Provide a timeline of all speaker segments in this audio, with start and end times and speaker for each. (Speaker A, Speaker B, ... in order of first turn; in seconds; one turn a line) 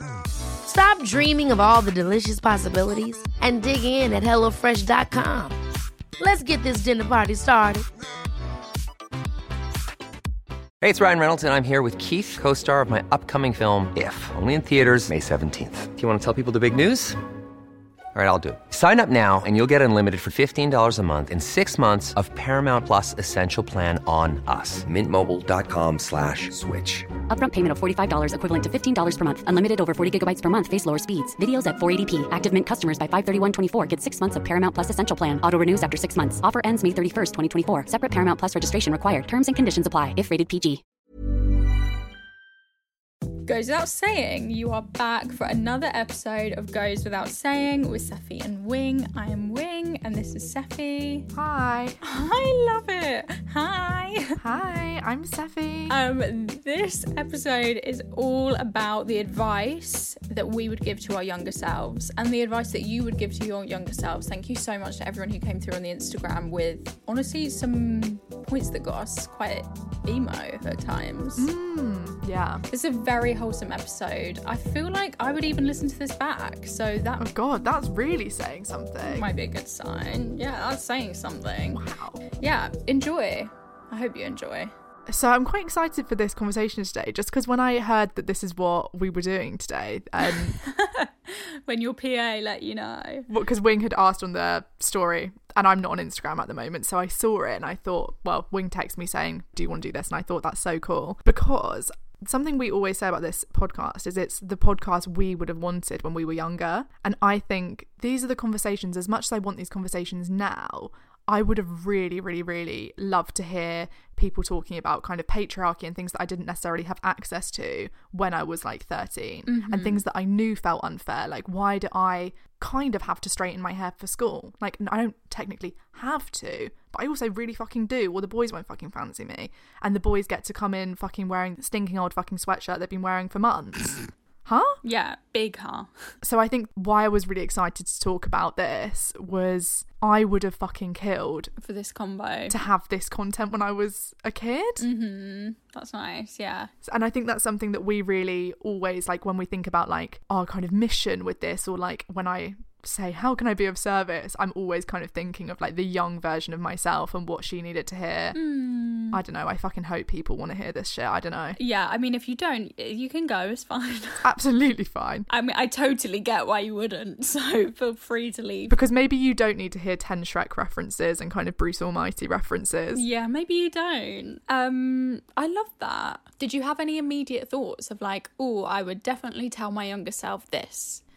Speaker A: 0.6-5.6
Speaker A: 6.2-7.8
Speaker B: 10.8-17.2
Speaker B: 18.1-27.1
Speaker C: 27.3-40.8
Speaker D: 43.4-51.3
Speaker E: 51.3-52.0
Speaker D: 52.0-54.4
Speaker E: 54.4-56.0
Speaker D: 55.9-71.5
Speaker E: 71.3-72.6
Speaker D: 72.7-77.3
Speaker E: 77.2-79.3
Speaker D: 79.0-81.8
Speaker E: 81.7-82.2
Speaker D: 82.4-84.7
Speaker E: 85.1-90.6
Speaker D: 90.2-93.3
Speaker E: 93.3-134.8
Speaker D: 119.5-120.0
Speaker D: 134.8-136.1
Speaker E: 136.2-141.5
Speaker D: 141.6-142.6
Speaker E: 142.5-144.8
Speaker D: 144.8-146.7
Speaker E: 146.8-158.4
Speaker D: 158.3-159.2
Speaker E: 159.1-161.6
Speaker D: 161.6-164.2
Speaker E: 164.2-165.3
Speaker D: 165.3-168.8
Speaker E: 168.7-173.1
Speaker D: 172.9-181.0